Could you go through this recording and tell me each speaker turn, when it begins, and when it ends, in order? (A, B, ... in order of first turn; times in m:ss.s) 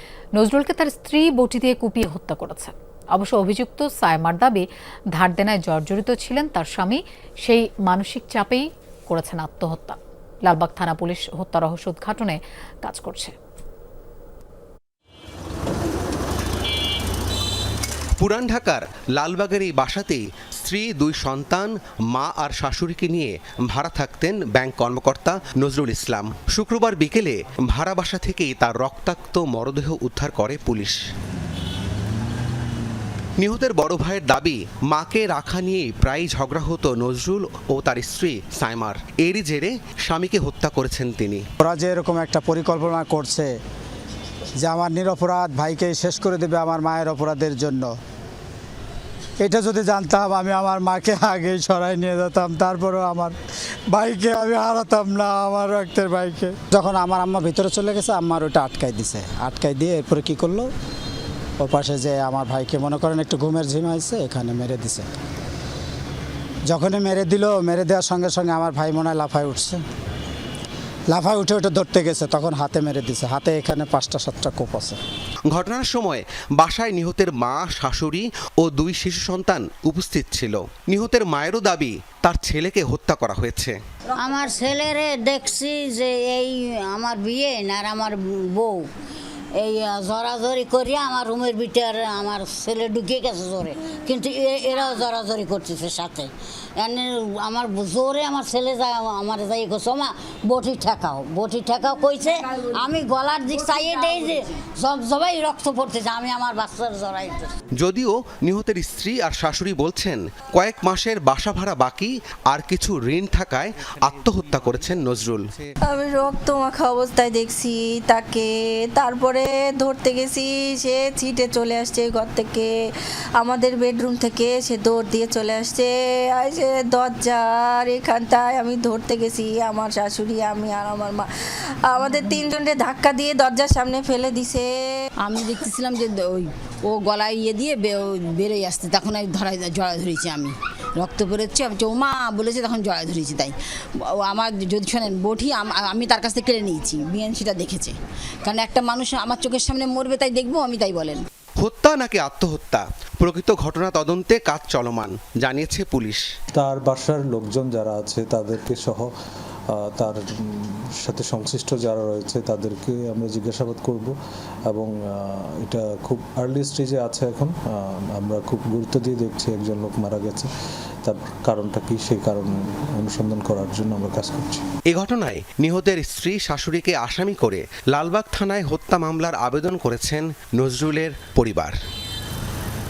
0:00.4-0:13.3 A
0:18.2-0:31.0 B
0:33.4-0:41.4 B
0:41.6-0:43.5 C
0:44.6-0:47.9 C
0:49.4-0:53.4 C
0:53.9-1:00.7 C
1:01.6-1:05.0 C
1:06.7-1:09.8 C
1:11.1-1:15.0 C
1:15.5-1:23.8 B
1:24.1-1:28.8 D
1:29.6-1:47.5 D
1:47.8-1:55.5 B
1:55.9-2:02.7 E
2:03.4-2:11.3 E
2:11.9-2:14.8 E
2:15.2-2:31.2 F
2:31.6-2:36.2 B
2:36.5-2:39.1 G
2:39.7-2:40.2 G
2:41.0-2:44.1 G
2:44.7-2:50.5 G
2:51.0-2:54.6 G
2:54.9-3:01.8 B